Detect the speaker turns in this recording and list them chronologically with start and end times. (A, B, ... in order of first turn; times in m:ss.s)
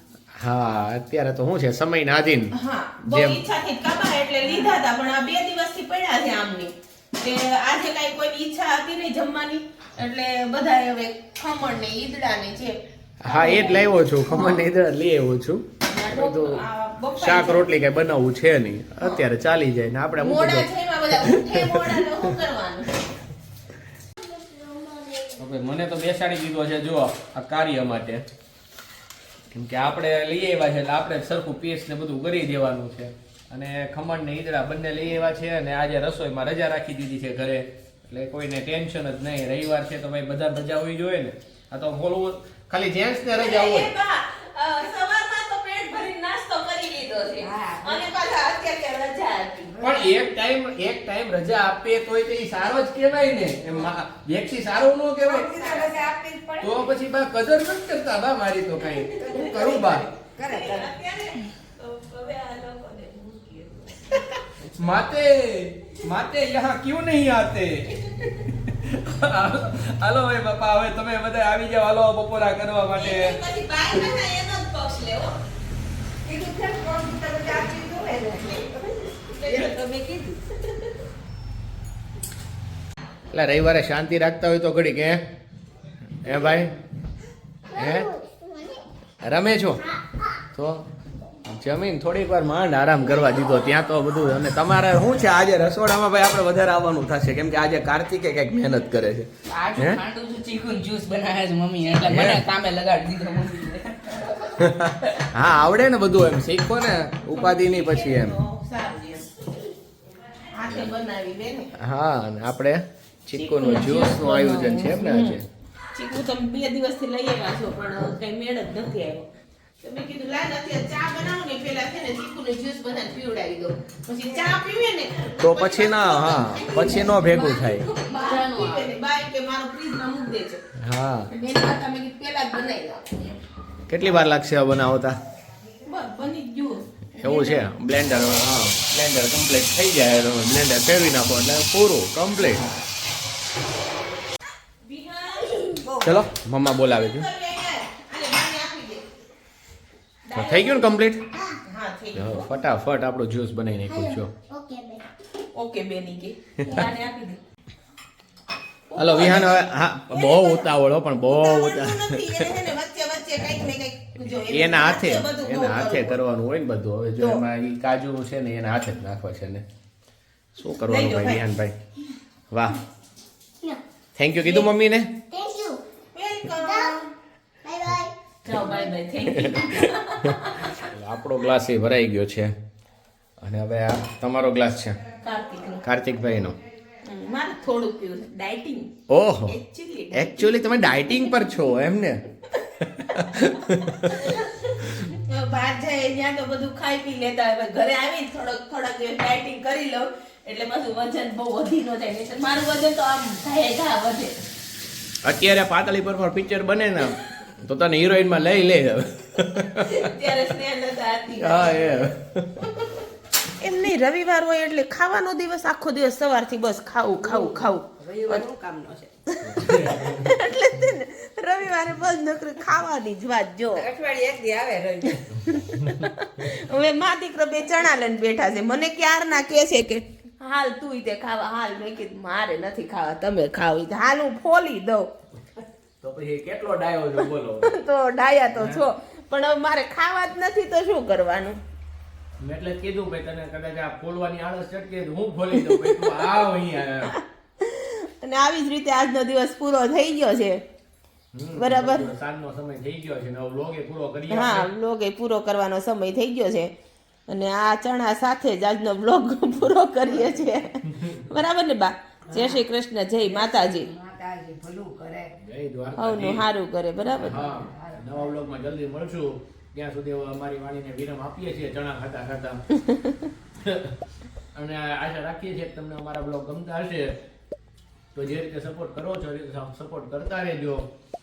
0:00.4-0:03.4 A
0:02.5-0:14.6 B
0:13.2-0:16.6 A
0:15.8-0:17.7 B
0:17.2-0:22.1 A
0:20.2-0:23.0 B
0:24.2-0:25.4 C
0:25.4-0:28.2 A
0:29.5-0:43.9 A
0:43.3-0:49.8 B
0:47.4-0:48.0 D
0:49.8-0:55.8 A
0:55.2-0:56.9 D
0:55.6-0:55.9 B
0:56.6-1:00.0 A
0:58.9-1:04.4 B
0:59.2-1:00.9 D
1:04.8-1:13.4 A
1:12.9-1:15.4 B
1:16.2-1:20.4 D
1:19.3-1:19.8 B
1:23.3-1:25.2 A
1:26.2-1:26.7 A
1:27.7-1:28.8 C
1:27.7-1:28.1 A
1:29.2-1:29.8 A
1:30.5-1:30.8 A
1:31.4-1:40.0 A
1:39.5-1:44.5 E
1:42.1-1:42.4 A
1:44.6-1:48.4 A
1:47.3-1:49.3 B
1:50.5-1:51.7 B
1:50.7-1:50.9 A
1:51.8-1:55.4 A
1:53.4-1:55.4 B
1:55.9-1:59.3 B
1:59.8-2:10.6 B
2:05.4-2:07.9 A
2:07.9-2:09.0 E
2:10.8-2:11.3 A
2:11.3-2:13.3 B
2:13.9-2:15.2 A
2:15.8-2:17.6 B
2:17.2-2:22.6 A
2:24.8-2:25.9 B
2:25.8-2:26.2 D
2:26.0-2:27.3 A
2:26.9-2:29.1 B
2:30.3-2:31.0 B
2:30.4-2:31.2 A
2:31.3-2:31.6 C
2:31.6-2:32.5 B
2:32.1-2:34.3 A
2:33.9-2:35.0 C
2:35.6-2:37.4 B
2:36.6-2:36.9 A
2:38.9-2:40.7 B
2:39.0-2:42.6 A
2:41.2-2:46.2 B
2:44.2-2:49.6 A
2:50.6-2:51.8 A
2:50.9-2:51.4 B
2:52.5-2:52.8 A
2:54.2-2:55.1 A
2:54.4-2:54.7 B
2:55.3-2:55.8 C
2:56.1-2:57.1 B
2:56.6-2:57.0 C
2:57.6-2:58.2 C
2:58.4-3:00.8 B
2:58.5-3:02.5 A
3:03.4-3:05.0 A
3:05.2-3:05.8 B
3:05.8-3:06.6 A
3:07.0-3:08.9 B
3:09.1-3:09.6 A
3:09.5-3:11.2 B
3:10.1-3:12.2 A
3:12.8-3:14.2 A
3:13.2-3:24.4 B
3:25.2-3:30.1 A
3:29.8-3:31.9 B
3:31.4-3:32.7 A
3:33.6-3:38.4 B
3:37.2-3:39.1 D
3:39.3-3:43.9 B
3:39.4-3:40.3 A
3:43.8-3:45.3 D
3:45.5-3:55.1 B
3:56.0-3:57.8 A
3:57.6-4:01.6 B
3:58.5-3:58.8 A
4:02.4-4:07.1 A
4:05.6-4:06.2 B
4:07.1-4:10.6 B
4:11.3-4:14.7 A
4:11.6-4:12.1 B
4:14.3-4:16.7 B
4:17.3-4:23.9 B
4:20.1-4:20.4 D
4:20.9-4:21.2 A
4:22.3-4:22.6 D
4:23.2-4:25.3 D
4:25.4-4:26.4 A
4:26.0-4:27.4 B
4:27.2-4:32.6 A
4:27.3-4:28.3 D
4:33.6-4:33.9 A
4:34.6-4:37.2 A
4:38.2-4:40.9 A